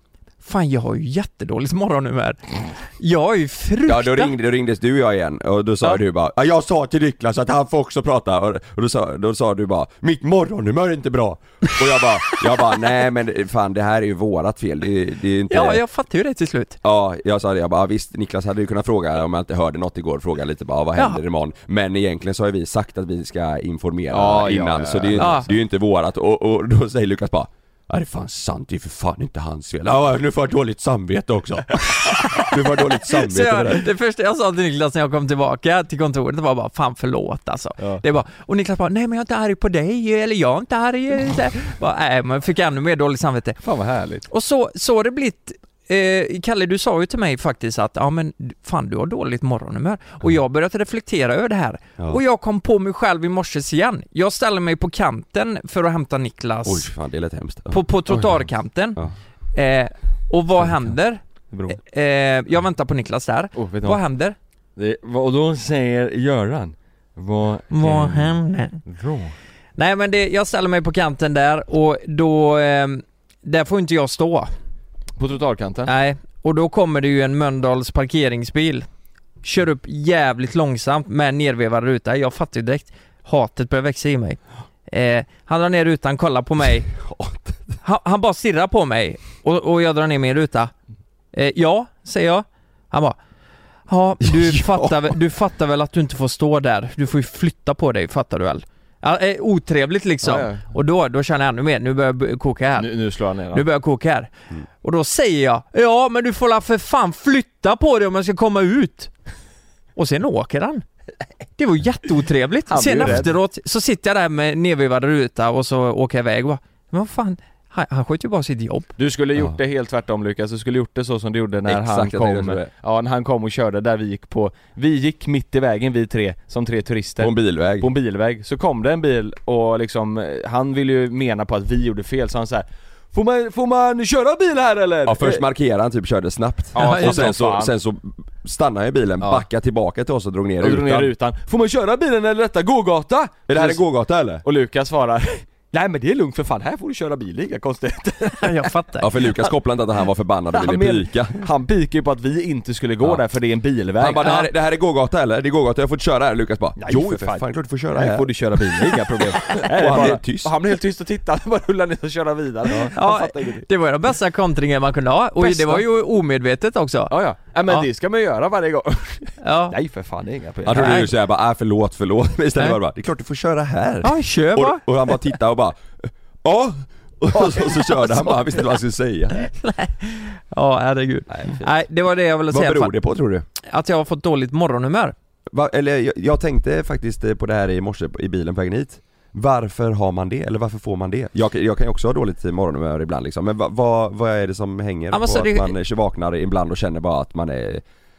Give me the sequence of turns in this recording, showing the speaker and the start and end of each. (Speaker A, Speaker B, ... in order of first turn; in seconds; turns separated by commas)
Speaker A: 0.4-4.3, Speaker B: 3.9-15.8, Speaker A: 15.5-16.8, Speaker B: 16.8-33.8, Speaker C: 24.1-25.4, Speaker A: 25.2-25.5, Speaker A: 33.1-43.6, Speaker C: 43.6-44.2, Speaker A: 44.3-56.9, Speaker B: 56.6-59.2, Speaker A: 57.7-59.0, Speaker A: 59.5-64.3, Speaker C: 61.5-61.8, Speaker C: 63.5-64.0, Speaker C: 64.8-69.4, Speaker A: 67.7-68.8, Speaker A: 69.8-74.5, Speaker C: 75.2-75.9, Speaker A: 75.8-78.9, Speaker A: 79.4-86.9, Speaker B: 87.0-87.8, Speaker A: 87.8-90.7, Speaker A: 91.3-93.2, Speaker A: 93.9-102.9, Speaker B: 94.2-95.1, Speaker C: 100.2-100.7, Speaker C: 102.8-103.6, Speaker A: 103.5-109.1, Speaker A: 110.0-110.8, Speaker A: 111.6-118.9, Speaker C: 112.7-113.3, Speaker C: 119.0-135.4, Speaker B: 121.7-122.7, Speaker B: 127.2-127.9, Speaker B: 135.0-141.1, Speaker C: 136.7-137.7, Speaker A: 136.8-137.3, Speaker C: 139.2-139.4, Speaker C: 140.6-143.8, Speaker B: 143.5-144.4, Speaker C: 144.4-148.7, Speaker A: 148.4-149.1, Speaker B: 149.0-151.4, Speaker C: 150.5-154.4, Speaker B: 154.0-160.5, Speaker A: 154.2-154.4, Speaker C: 156.8-163.7, Speaker A: 162.9-167.1, Speaker C: 165.4-165.8, Speaker C: 167.1-171.0, Speaker A: 169.4-169.8, Speaker B: 170.6-179.5, Speaker A: 170.7-171.1, Speaker A: 174.0-175.1, Speaker A: 179.4-182.9, Speaker B: 181.3-181.9, Speaker B: 182.5-183.4, Speaker A: 183.6-185.1, Speaker B: 185.5-197.8, Speaker A: 195.1-195.7